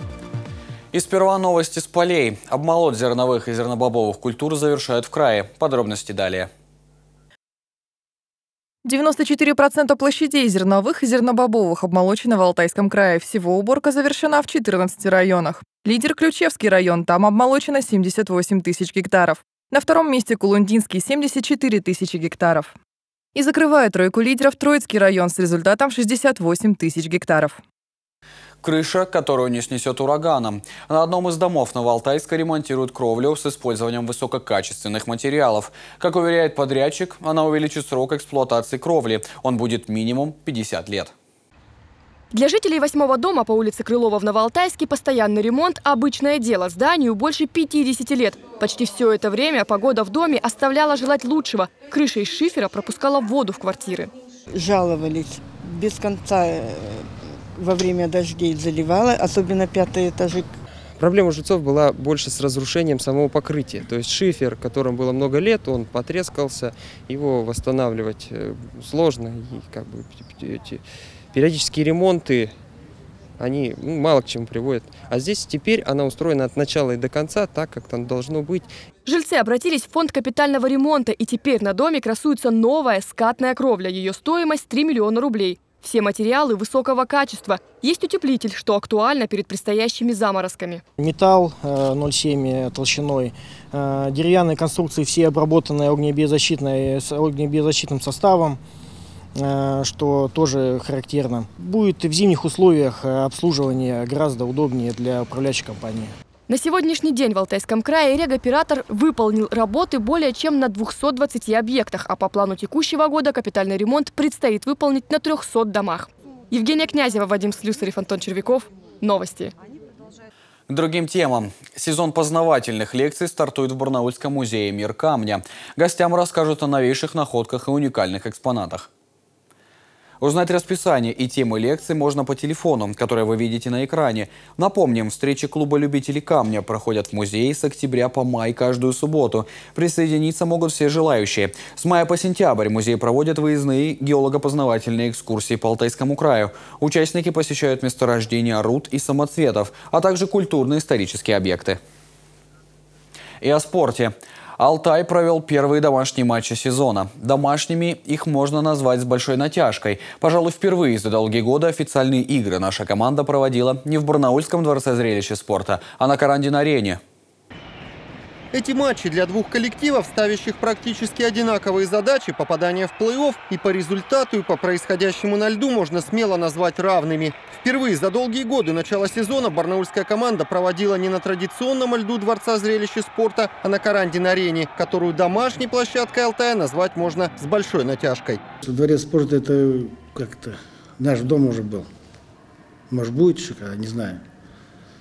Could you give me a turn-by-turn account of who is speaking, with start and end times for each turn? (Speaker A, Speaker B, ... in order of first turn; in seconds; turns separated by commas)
Speaker A: 0.9-6.5, Speaker B: 8.8-22.7, Speaker B: 23.3-27.6, Speaker A: 28.6-41.1, Speaker C: 42.3-54.1, Speaker D: 54.5-60.5, Speaker E: 61.0-72.5, Speaker E: 73.4-78.7, Speaker C: 79.0-90.8, Speaker F: 91.0-98.6, Speaker F: 99.4-106.1, Speaker C: 106.5-119.5, Speaker A: 120.7-128.9, Speaker A: 130.2-151.8, Speaker A: 153.4-167.0, Speaker G: 168.5-188.4, Speaker H: 188.6-191.8, Speaker H: 192.9-194.2